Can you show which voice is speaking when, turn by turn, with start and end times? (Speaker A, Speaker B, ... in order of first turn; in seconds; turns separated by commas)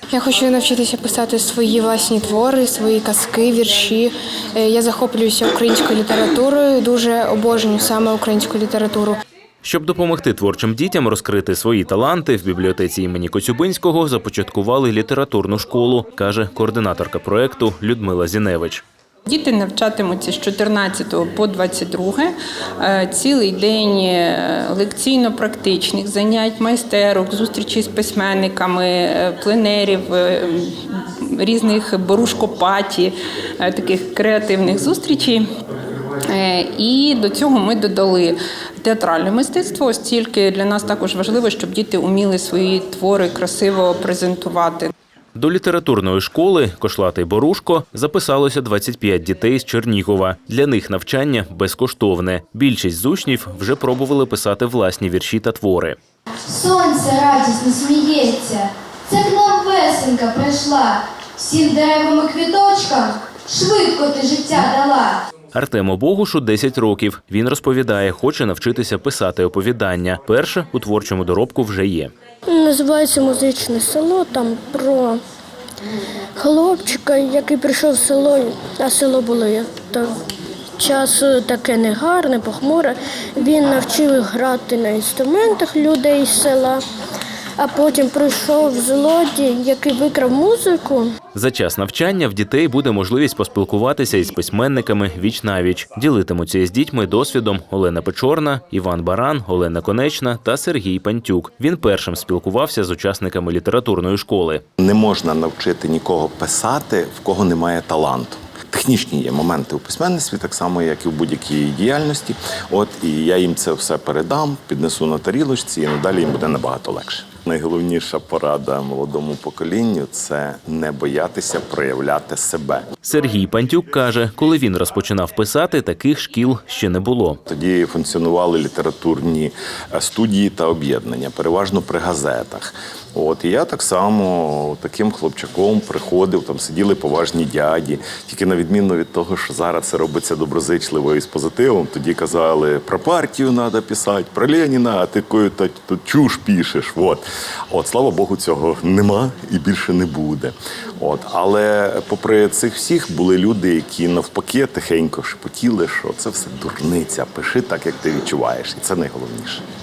Speaker A: 0.1-9.2, Speaker B: 9.6-18.8, Speaker C: 19.3-35.5, Speaker C: 36.3-44.9, Speaker B: 45.3-56.0, Speaker D: 56.5-65.2, Speaker B: 65.5-72.1, Speaker E: 72.5-75.2, Speaker E: 76.4-80.1, Speaker E: 80.8-86.8, Speaker E: 87.6-91.1, Speaker B: 91.3-104.6, Speaker F: 104.8-122.8, Speaker B: 123.0-127.4, Speaker F: 127.5-159.6